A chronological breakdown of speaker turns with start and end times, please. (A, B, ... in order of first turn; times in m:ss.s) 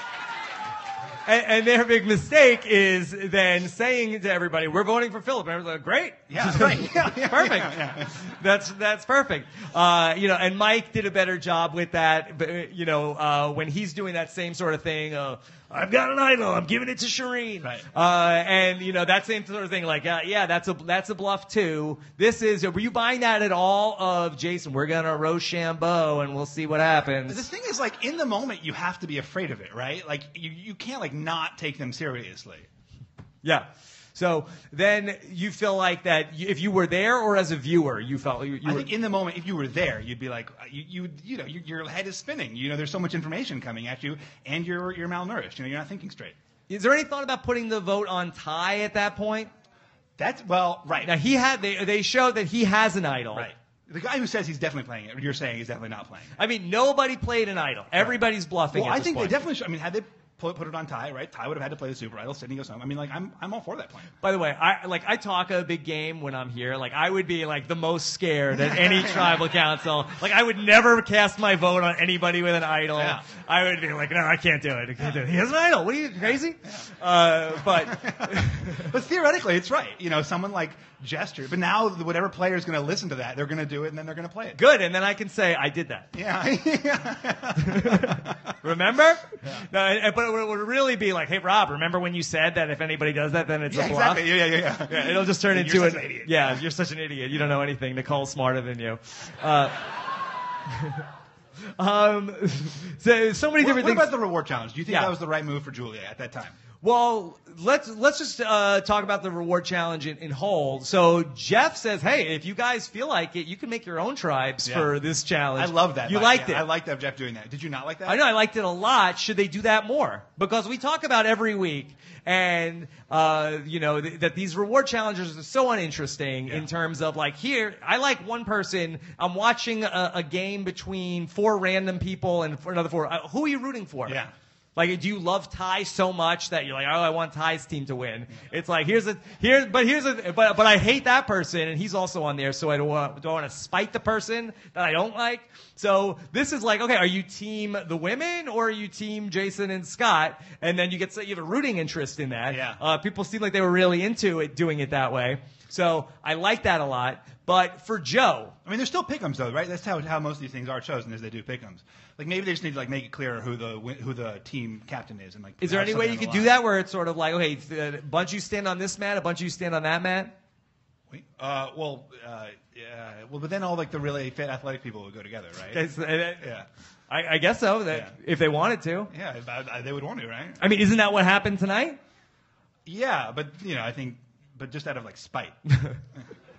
0:01.2-0:27.4 A
0:06.3-0:08.2 B
0:27.3-0:32.7 B
0:33.4-0:38.9 A
0:38.6-0:46.4 B
0:46.7-0:49.5 A
0:50.2-0:51.2 B
0:51.0-0:53.5 A
0:53.3-0:56.3 B
0:56.4-0:59.4 A
0:58.7-1:04.1 B
1:04.2-1:18.9 A
1:08.5-1:09.4 B
1:12.9-1:13.2 B
1:17.5-1:24.6 B
1:24.5-1:26.1 A
1:26.1-1:28.5 B
1:27.6-1:39.8 A
1:29.4-1:29.7 B
1:33.7-1:36.6 B
1:41.8-1:44.1 A
1:43.6-1:46.6 B
1:44.9-1:45.1 A
1:46.8-1:56.7 A
1:54.6-1:55.0 B
1:55.5-1:58.2 B
1:58.0-2:14.2 A
2:14.0-2:14.3 B
2:14.8-2:38.5 A
2:32.5-2:32.8 B
2:38.6-2:46.6 B
2:45.6-2:50.3 A
2:51.1-2:55.8 B
2:55.7-2:56.5 A
2:56.4-2:56.7 B
2:57.1-2:59.1 A
2:57.9-2:58.1 B
2:59.1-3:00.6 B
3:00.6-3:02.0 A
3:02.8-3:05.6 B